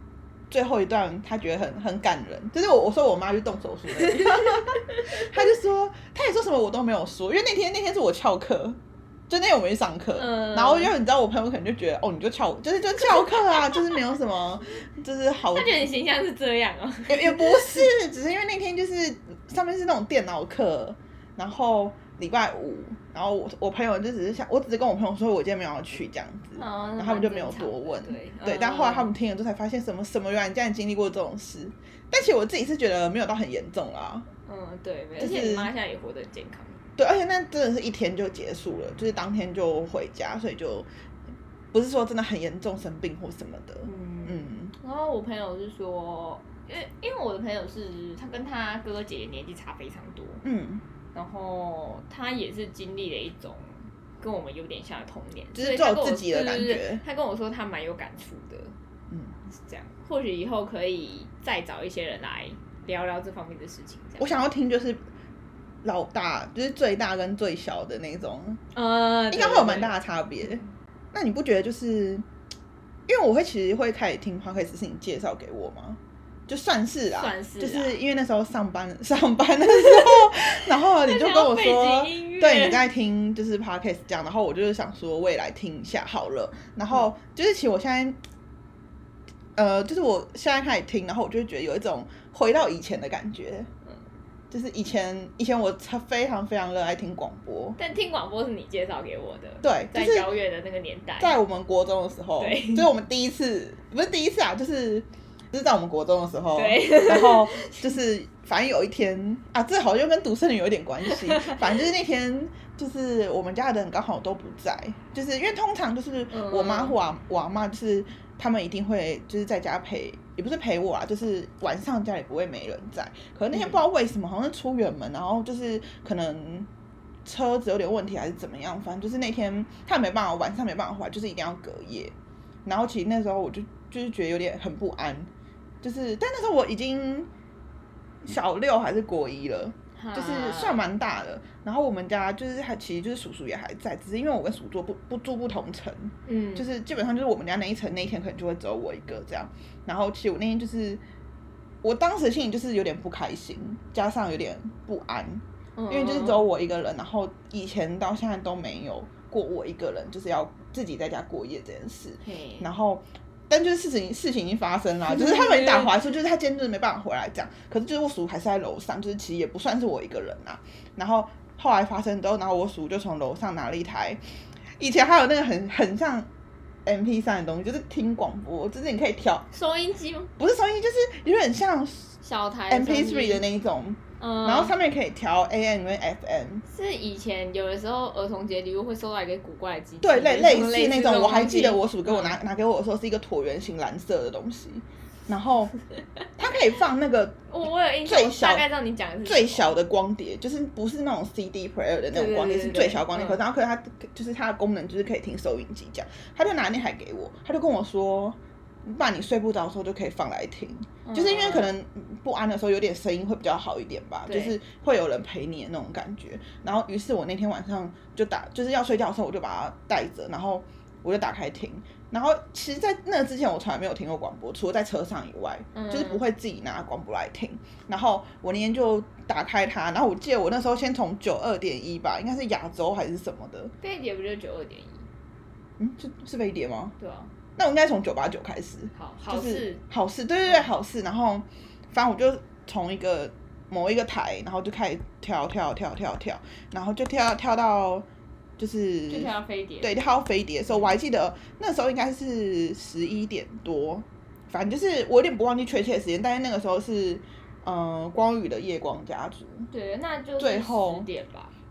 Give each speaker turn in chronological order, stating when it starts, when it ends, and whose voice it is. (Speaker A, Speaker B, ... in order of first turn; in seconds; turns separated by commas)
Speaker A: 0.5-15.8, Speaker B: 3.9-5.5, Speaker B: 10.2-10.9, Speaker B: 13.0-13.8, Speaker B: 15.5-17.9, Speaker A: 17.1-34.2, Speaker B: 26.6-29.1, Speaker B: 34.5-36.8, Speaker A: 35.2-35.7, Speaker A: 37.0-40.9, Speaker A: 41.7-44.7, Speaker B: 43.8-50.4, Speaker A: 50.4-50.8, Speaker B: 51.1-58.7, Speaker A: 55.5-57.0, Speaker B: 59.5-64.3, Speaker A: 64.2-65.0, Speaker A: 65.8-68.6, Speaker B: 68.7-69.9, Speaker A: 69.3-72.2, Speaker A: 73.1-88.2, Speaker B: 77.1-78.0, Speaker B: 79.7-82.9, Speaker A: 89.5-93.7, Speaker A: 94.5-97.8, Speaker B: 97.8-101.3, Speaker A: 99.6-100.3, Speaker A: 101.2-126.7, Speaker B: 102.4-102.9, Speaker B: 106.5-107.9, Speaker B: 111.0-111.7, Speaker B: 116.3-117.0, Speaker B: 123.5-123.8, Speaker A: 127.2-132.1, Speaker A: 132.7-135.3, Speaker A: 135.8-137.3, Speaker A: 138.2-151.0, Speaker B: 139.9-140.8, Speaker B: 146.2-146.7, Speaker A: 151.8-174.2, Speaker B: 155.8-156.4, Speaker B: 162.2-162.7, Speaker B: 165.1-165.9, Speaker A: 174.8-176.3, Speaker A: 176.8-179.5, Speaker B: 179.5-180.3, Speaker A: 180.4-182.1, Speaker B: 182.2-183.4, Speaker A: 182.7-186.6, Speaker B: 184.2-184.7, Speaker B: 186.7-192.4, Speaker A: 190.0-195.7, Speaker A: 196.4-197.5, Speaker B: 197.5-199.8, Speaker A: 198.0-198.6, Speaker A: 199.2-233.7, Speaker B: 202.1-203.4, Speaker B: 211.0-211.7, Speaker B: 214.2-214.6, Speaker B: 225.7-226.2, Speaker B: 233.8-235.1, Speaker A: 235.8-236.9, Speaker B: 237.0-237.3, Speaker A: 237.6-248.1, Speaker B: 238.9-239.8, Speaker B: 240.4-240.7, Speaker A: 248.6-259.7, Speaker B: 249.1-250.0, Speaker B: 250.7-250.9, Speaker B: 259.7-261.5, Speaker A: 260.4-261.1